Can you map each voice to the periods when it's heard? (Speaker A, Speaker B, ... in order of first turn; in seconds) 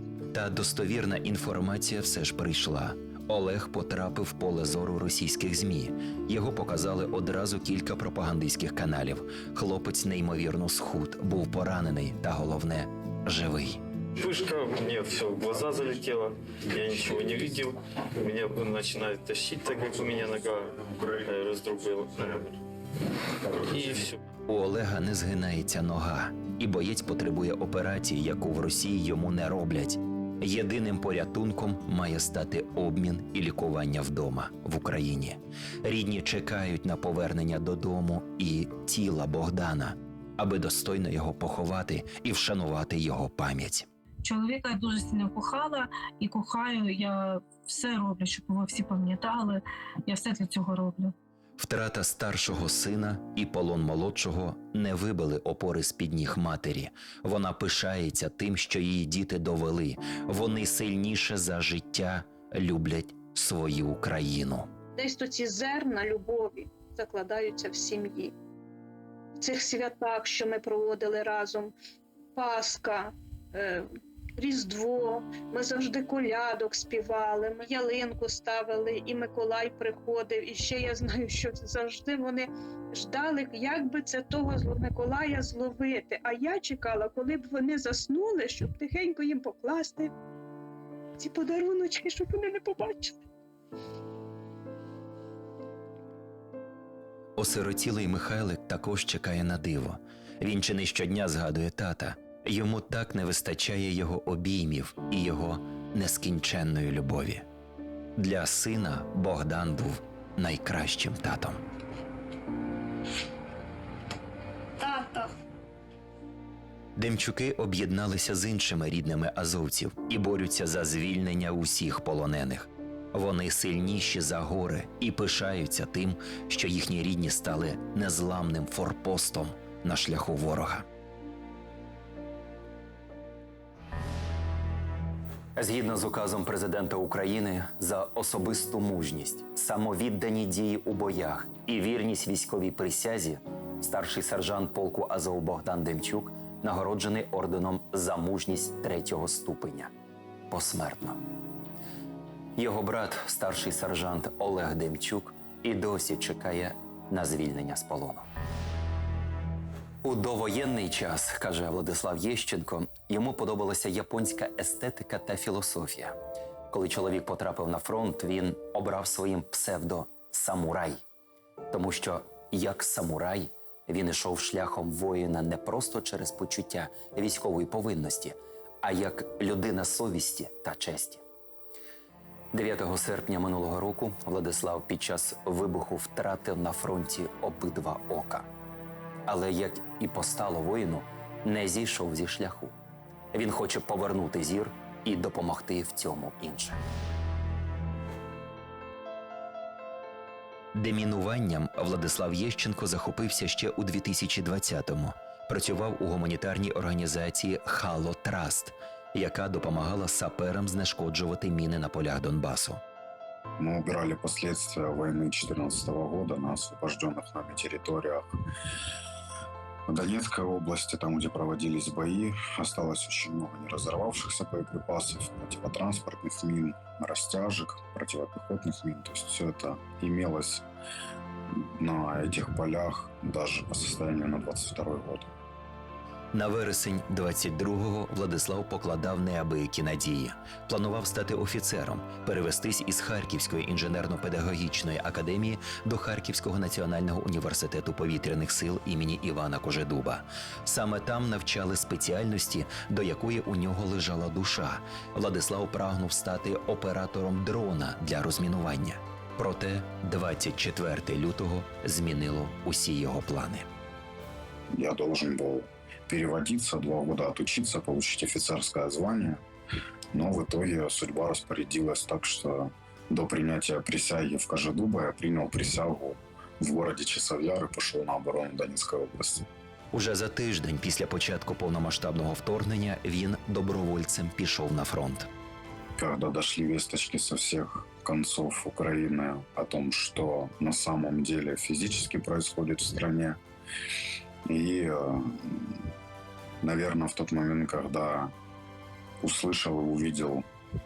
Speaker A: 0.3-13.8, 24.5-43.9, 51.6-64.7, 97.4-107.5, 108.2-111.6, 117.0-130.8, 135.6-149.9, 150.5-151.2, 152.6-158.3, 160.0-166.2, 166.7-171.0, 171.7-181.2, 182.5-188.5, 189.3-192.8, 193.3-196.8, 200.8-212.8, 236.3-263.7, 279.9-285.3
Speaker B: 14.2-22.6, 23.6-24.2
Speaker C: 44.2-51.1
Speaker D: 65.0-68.3, 69.4-71.7, 72.3-73.9, 74.4-90.1, 91.2-93.2, 114.8-115.3
Speaker E: 213.6-218.3, 219.9-230.7, 231.5-235.3, 264.8-269.4, 270.1-279.4, 286.0-293.4, 294.5-295.8, 296.6-298.3, 299.2-300.4